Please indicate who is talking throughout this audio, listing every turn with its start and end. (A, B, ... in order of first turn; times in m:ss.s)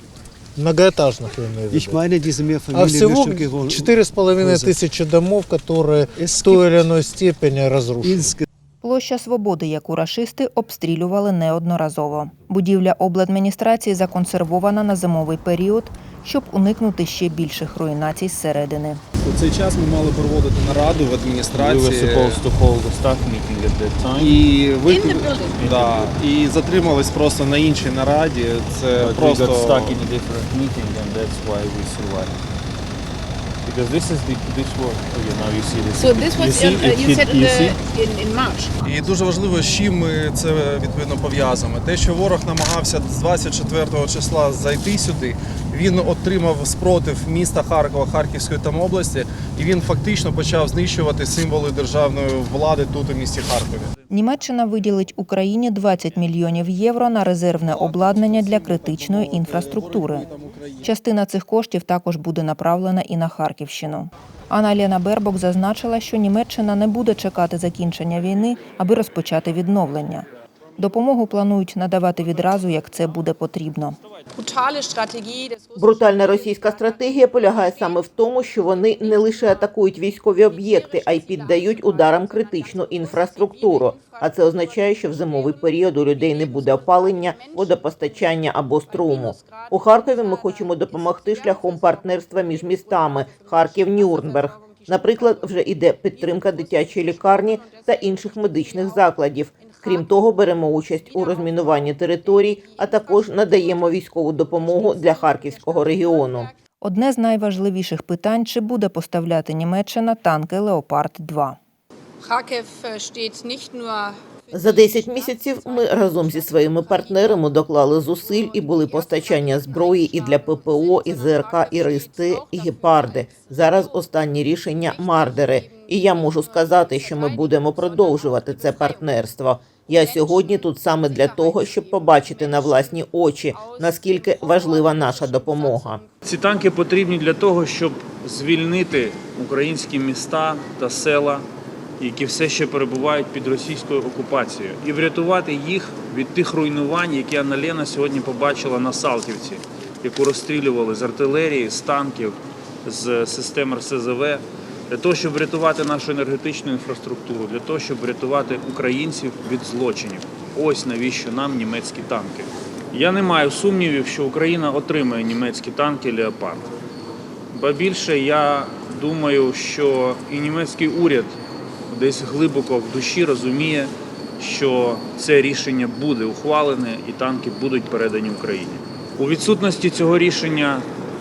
0:00.6-0:02.0 A
0:01.7-0:04.8 B
0:02.7-0:08.4 A
0:06.2-0:06.8 B
0:08.0-0:08.4 B
0:08.8-0:19.0 C
0:19.2-0:22.4 D
0:21.5-0:24.4 E
0:24.2-0:30.0 D
0:24.9-0:25.6 F
0:25.5-0:26.2 E
0:29.0-0:32.3 E
0:33.6-0:37.8 E
0:36.0-0:38.7 F
0:38.8-0:53.9 D
0:53.8-0:54.1 E
0:54.1-1:00.3 C
0:57.8-1:00.9 D
1:00.8-1:10.3 C
1:10.8-1:14.0 C
1:14.3-1:18.0 F
1:15.8-1:46.5 G
1:18.8-1:19.6 F
1:20.4-1:40.3 F
1:40.9-1:46.5 F
1:46.8-1:51.6 C
1:52.2-1:57.6 F
1:54.5-2:16.0 G
1:58.2-2:04.0 F
2:04.8-2:09.2 F
2:09.8-2:16.1 F
2:16.2-2:21.5 E
2:22.0-2:46.7 E
2:47.5-2:51.4 E
2:51.9-3:00.9 E